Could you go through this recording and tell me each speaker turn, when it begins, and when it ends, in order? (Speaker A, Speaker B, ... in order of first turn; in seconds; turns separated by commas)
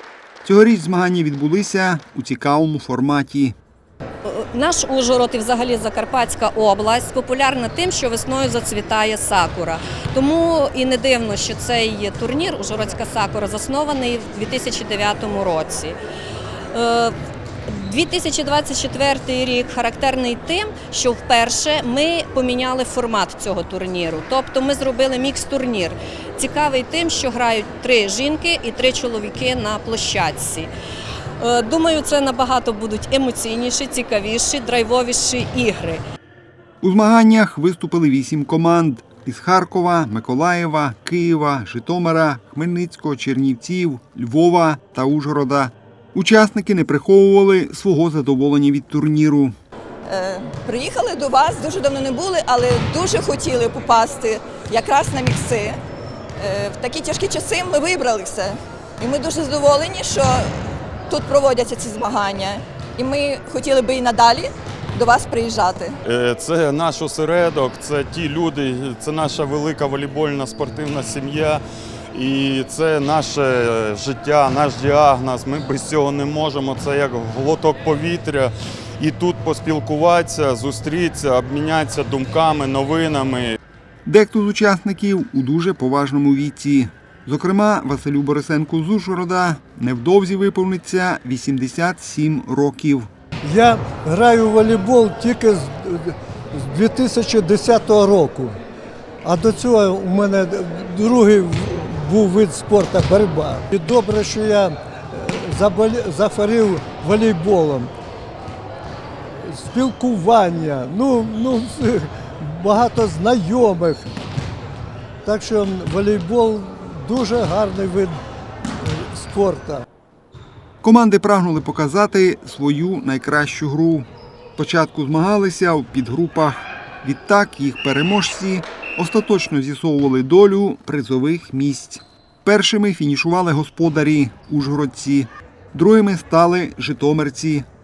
Speaker A: 0.4-3.5, Speaker B: 4.2-16.0, Speaker B: 16.7-17.1, Speaker B: 17.7-30.7, Speaker B: 31.4-36.0, Speaker A: 36.8-49.5, Speaker C: 50.1-55.8, Speaker C: 56.4-66.0, Speaker D: 66.0-71.6, Speaker D: 72.1-83.6, Speaker A: 84.0-93.1, Speaker E: 93.4-98.5, Speaker E: 99.2-107.9, Speaker E: 109.5-114.1, Speaker E: 115.2-118.1, Speaker E: 118.8-119.8, Speaker A: 120.8-137.7